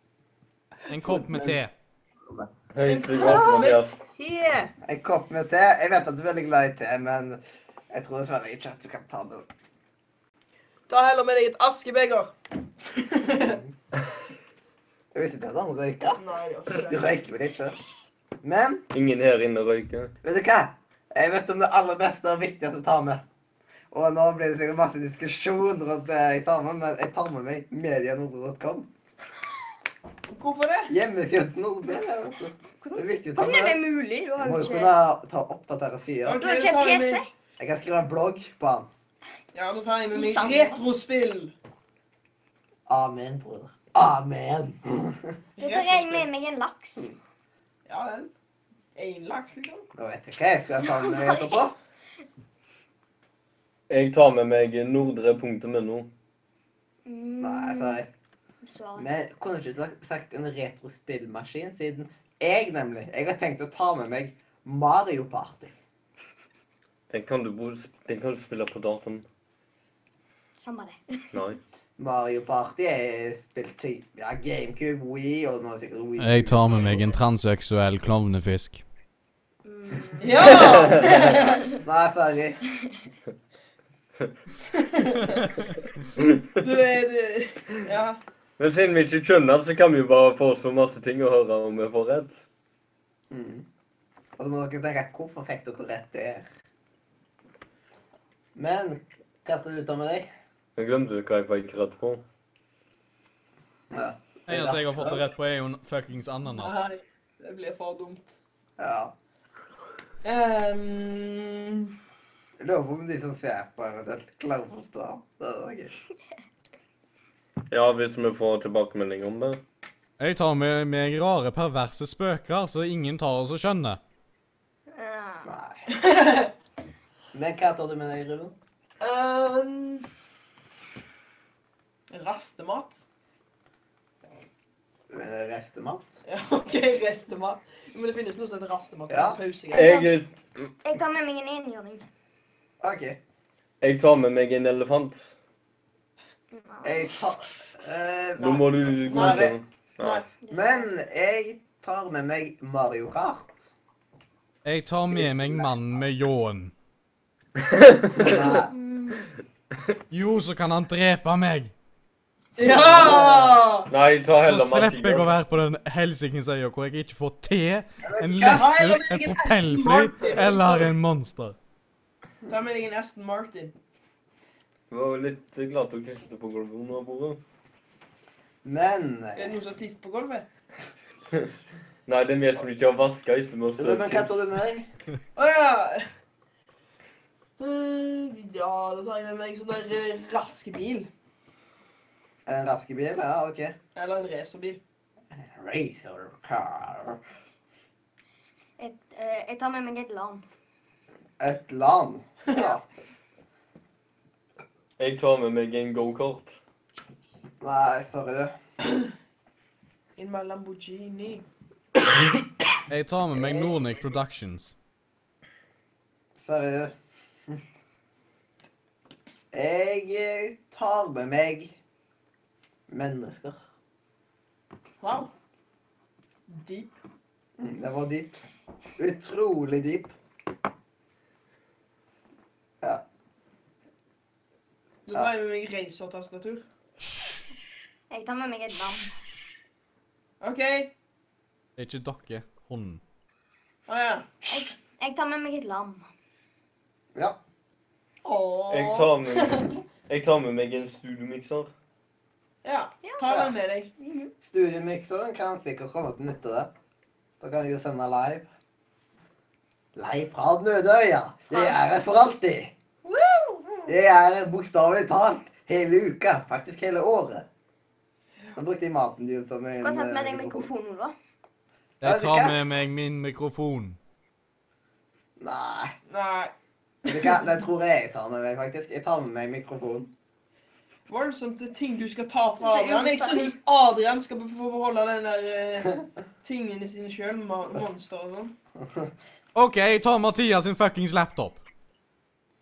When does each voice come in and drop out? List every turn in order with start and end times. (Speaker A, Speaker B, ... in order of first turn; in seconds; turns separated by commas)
Speaker A: 0.9-1.7, Speaker B: 1.0-1.6, Speaker B: 2.3-2.5, Speaker C: 2.7-4.0, Speaker D: 2.9-4.7, Speaker B: 4.8-7.4, Speaker B: 7.9-9.5, Speaker D: 10.9-12.3, Speaker D: 12.9-13.6, Speaker B: 15.1-17.8, Speaker D: 16.1-17.1, Speaker B: 18.4-18.8, Speaker C: 18.9-20.1, Speaker B: 20.2-23.2, Speaker B: 23.9-28.9, Speaker D: 30.3-30.9, Speaker B: 30.9-33.8, Speaker E: 32.8-34.9, Speaker B: 34.4-36.4, Speaker D: 36.2-37.2, Speaker E: 36.4-37.3, Speaker B: 37.6-38.9, Speaker D: 39.5-41.5, Speaker E: 40.1-40.8, Speaker B: 42.9-45.3, Speaker D: 45.6-46.2, Speaker E: 45.6-47.1, Speaker D: 47.9-48.3, Speaker D: 48.9-49.9, Speaker B: 50.0-51.7, Speaker E: 50.8-51.6, Speaker C: 53.9-56.1, Speaker E: 57.0-58.0, Speaker B: 57.4-58.1, Speaker E: 58.6-59.0, Speaker B: 59.0-65.7, Speaker C: 67.1-69.3, Speaker E: 70.6-71.3, Speaker C: 71.3-71.6, Speaker B: 72.0-77.0, Speaker A: 76.2-78.8, Speaker E: 79.6-81.7, Speaker D: 80.2-81.6, Speaker C: 80.4-81.1, Speaker B: 81.0-82.6, Speaker D: 84.7-85.5, Speaker D: 86.5-88.2, Speaker C: 88.6-92.4, Speaker B: 93.3-93.7, Speaker B: 94.4-96.5, Speaker B: 98.5-100.3, Speaker C: 100.8-102.2, Speaker B: 103.9-105.2, Speaker A: 104.5-106.8, Speaker D: 106.6-108.4, Speaker B: 108.8-109.1, Speaker D: 110.2-111.9, Speaker B: 112.6-115.9, Speaker C: 117.7-119.6, Speaker A: 120.2-124.0, Speaker E: 124.9-125.5, Speaker B: 125.4-125.8, Speaker D: 125.9-126.5, Speaker B: 127.3-128.6, Speaker D: 129.0-130.1, Speaker D: 132.1-133.0, Speaker B: 135.1-136.2, Speaker D: 136.3-140.0, Speaker B: 139.1-139.4, Speaker C: 139.7-140.7, Speaker E: 139.7-140.1, Speaker E: 140.8-142.1, Speaker B: 142.8-143.2, Speaker C: 143.8-145.3, Speaker E: 146.5-147.2, Speaker B: 146.8-149.5, Speaker C: 148.4-150.2, Speaker D: 148.4-150.2, Speaker E: 150.4-150.9, Speaker B: 150.5-153.6, Speaker A: 154.6-156.7, Speaker B: 155.1-155.7, Speaker C: 157.6-158.3, Speaker B: 158.2-158.7, Speaker E: 158.3-159.3, Speaker A: 160.1-161.7, Speaker D: 162.6-163.9, Speaker B: 162.7-163.6, Speaker C: 163.9-165.3, Speaker A: 164.4-171.6, Speaker B: 168.0-168.7, Speaker D: 168.4-170.9, Speaker D: 172.5-173.7, Speaker C: 174.9-177.4, Speaker B: 178.6-179.6, Speaker D: 179.3-180.4, Speaker C: 182.1-184.4, Speaker B: 183.8-184.9, Speaker D: 185.3-186.1, Speaker D: 187.6-191.1, Speaker B: 192.4-193.8, Speaker D: 193.9-194.8, Speaker B: 195.3-197.2, Speaker E: 198.8-200.4, Speaker B: 201.4-202.8, Speaker C: 205.0-206.6, Speaker B: 207.6-208.5, Speaker D: 210.2-211.4, Speaker A: 212.9-214.7, Speaker B: 213.3-213.7, Speaker B: 216.4-216.9, Speaker B: 219.5-221.8, Speaker B: 222.9-223.6, Speaker D: 225.0-225.3, Speaker D: 226.5-226.9, Speaker B: 227.6-228.4, Speaker B: 229.0-230.1, Speaker D: 235.1-236.6, Speaker E: 238.1-239.1, Speaker D: 240.4-240.9, Speaker A: 241.8-243.0, Speaker D: 243.9-244.3, Speaker E: 244.5-246.1, Speaker D: 248.2-249.7, Speaker C: 248.7-251.7, Speaker D: 252.6-253.9, Speaker E: 253.0-253.3, Speaker E: 254.0-254.3, Speaker B: 254.4-256.7, Speaker B: 257.4-258.4, Speaker B: 259.9-262.7, Speaker D: 263.0-263.9, Speaker B: 263.9-267.4, Speaker B: 268.6-270.7, Speaker E: 269.7-271.1, Speaker A: 272.0-274.0, Speaker B: 272.0-272.6, Speaker B: 275.4-275.9, Speaker D: 276.1-276.5, Speaker D: 277.1-277.4, Speaker B: 277.1-280.1, Speaker D: 281.1-288.5, Speaker E: 282.6-283.5, Speaker B: 288.8-289.1, Speaker A: 289.6-291.6